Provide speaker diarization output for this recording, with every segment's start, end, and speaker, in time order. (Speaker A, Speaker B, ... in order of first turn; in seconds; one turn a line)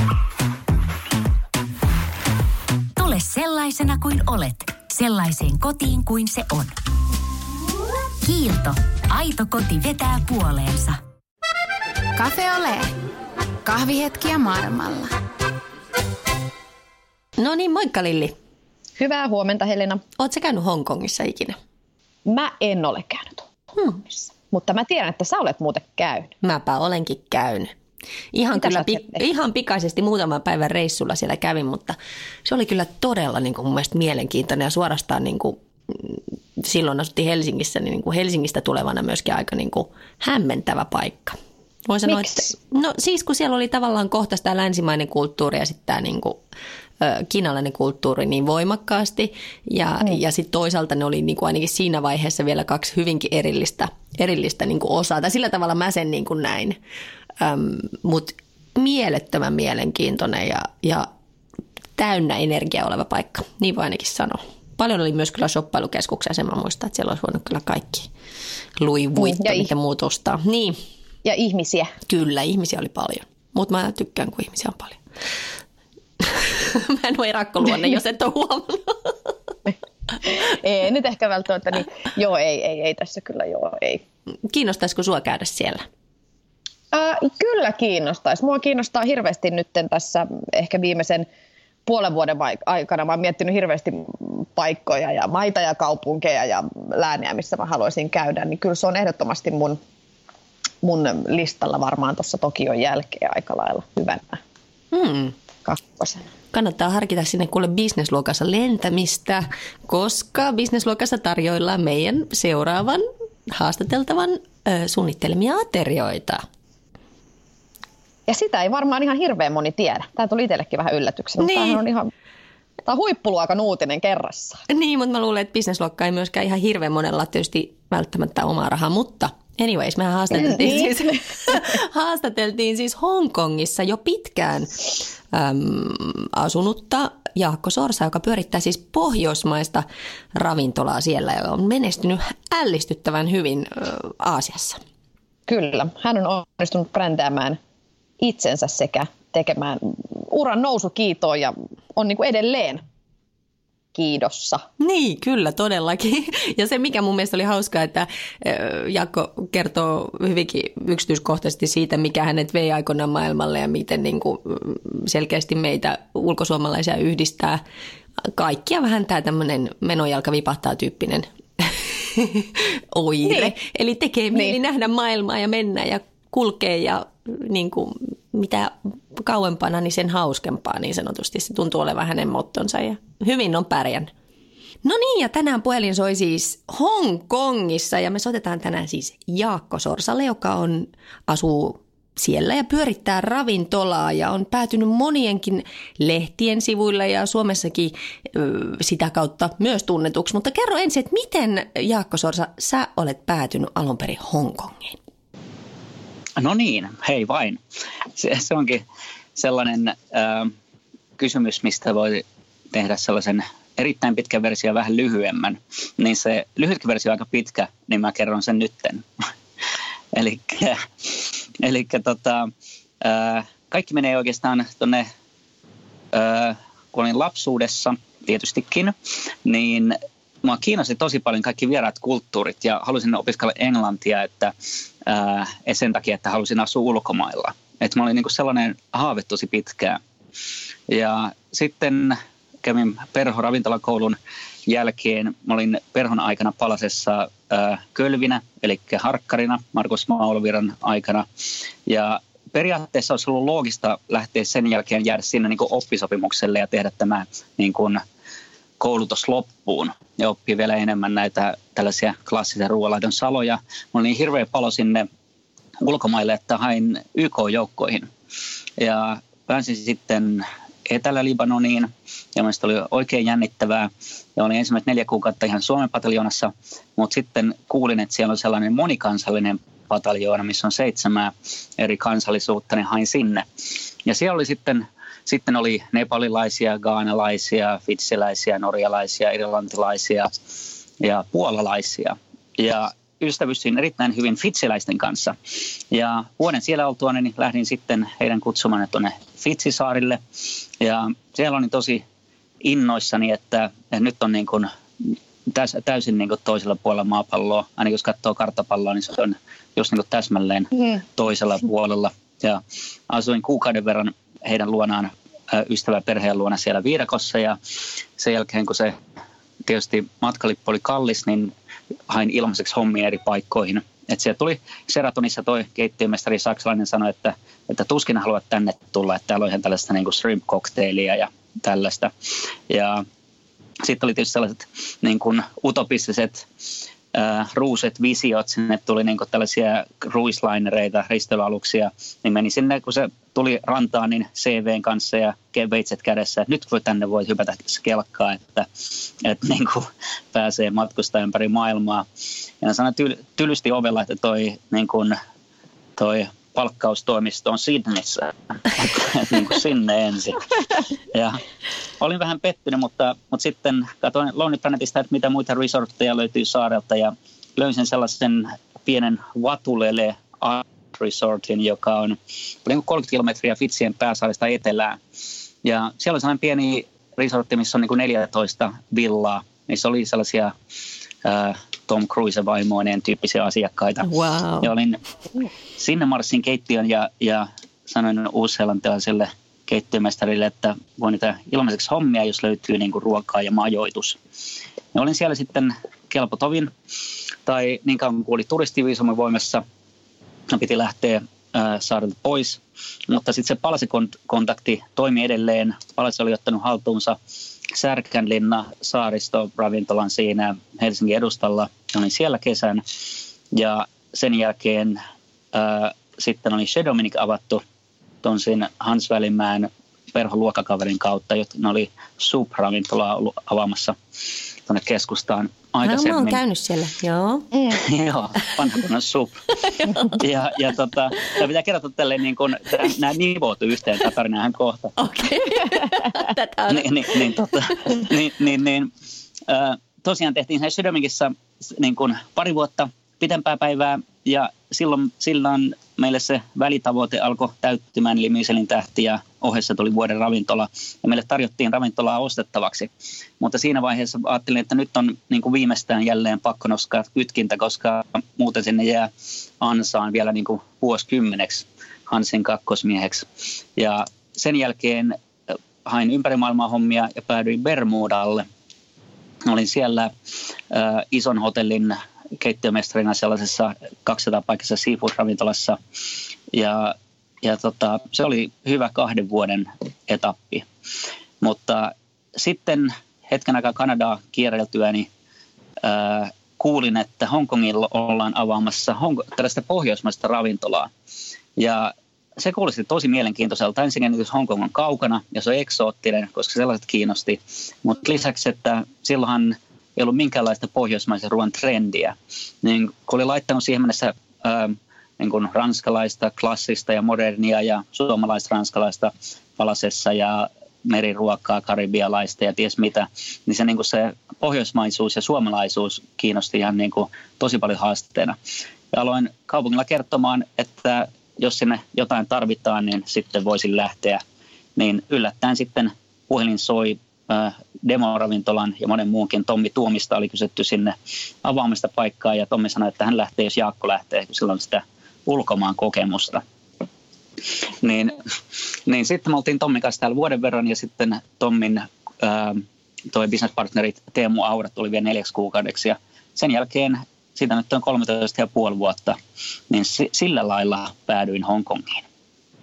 Speaker A: 3.0-6.8
Speaker A: 8.2-11.0
Speaker B: 12.2-12.9
Speaker B: 13.7-15.2
Speaker C: 17.4-18.4
Speaker D: 19.0-20.0
Speaker C: 20.2-21.6
Speaker D: 22.3-23.5
Speaker D: 24.1-26.3
Speaker C: 26.4-27.8
Speaker C: 28.3-46.4
Speaker D: 28.6-29.2
Speaker D: 42.1-42.5
Speaker C: 47.0-56.8
Speaker C: 57.4-61.1
Speaker C: 62.0-68.1
Speaker C: 68.8-70.8
Speaker D: 69.2-69.7
Speaker D: 71.2-71.9
Speaker C: 72.1-75.0
Speaker C: 76.2-79.3
Speaker D: 80.2-84.0
Speaker C: 84.5-85.8
Speaker D: 86.9-91.3
Speaker D: 91.9-99.8
Speaker D: 100.8-104.4
Speaker C: 104.9-105.3
Speaker D: 105.7-106.3
Speaker C: 106.5-116.5
Speaker D: 118.3-122.1
Speaker C: 121.4-121.8
Speaker D: 122.9-124.6
Speaker C: 124.7-144.8
Speaker D: 130.3-131.0
Speaker D: 145.5-147.6
Speaker D: 148.2-152.8
Speaker D: 153.9-154.7
Speaker C: 154.8-167.6
Speaker C: 168.2-184.1
Speaker C: 184.8-205.0
Speaker E: 206.4-207.6
Speaker E: 208.2-208.8
Speaker E: 209.4-210.5
Speaker E: 211.2-219.1
Speaker E: 220.1-222.5
Speaker E: 223.0-225.1
Speaker E: 226.1-234.5
Speaker E: 235.0-240.0
Speaker E: 240.9-251.3
Speaker E: 251.9-258.0
Speaker E: 258.8-265.1
Speaker E: 265.8-268.1
Speaker E: 268.8-283.5
Speaker E: 284.1-290.3
Speaker E: 291.0-295.4
Speaker E: 295.9-300.2
Speaker E: 300.8-302.0
Speaker E: 302.6-317.6
Speaker E: 318.2-319.0
Speaker E: 319.7-321.5
Speaker E: 322.1-332.1
Speaker E: 332.7-333.0
Speaker E: 333.8-336.5
Speaker E: 337.1-352.1
Speaker E: 352.6-355.2
Speaker E: 356.0-360.5
Speaker E: 361.1-361.4
Speaker E: 362.0-375.0
Speaker E: 375.6-380.5
Speaker E: 381.2-384.1
Speaker C: 384.0-384.7
Speaker E: 384.6-385.0
Speaker E: 385.8-394.2
Speaker E: 394.9-396.7
Speaker E: 397.5-399.6
Speaker E: 400.5-407.2
Speaker E: 407.7-412.8
Speaker E: 413.5-415.0
Speaker E: 415.5-417.6
Speaker E: 418.2-424.0
Speaker E: 424.7-426.4
Speaker C: 425.8-427.6
Speaker E: 427.7-429.4
Speaker C: 429.6-430.2
Speaker E: 430.1-434.9
Speaker C: 435.0-437.3
Speaker E: 436.7-438.9
Speaker E: 439.5-468.5
Speaker E: 469.5-470.1
Speaker E: 470.7-475.8
Speaker E: 476.5-480.7
Speaker E: 481.4-485.1
Speaker E: 485.8-490.9
Speaker E: 491.6-518.4
Speaker E: 518.9-524.2
Speaker E: 524.8-536.4
Speaker E: 537.8-538.2
Speaker E: 538.9-549.2
Speaker E: 549.7-552.0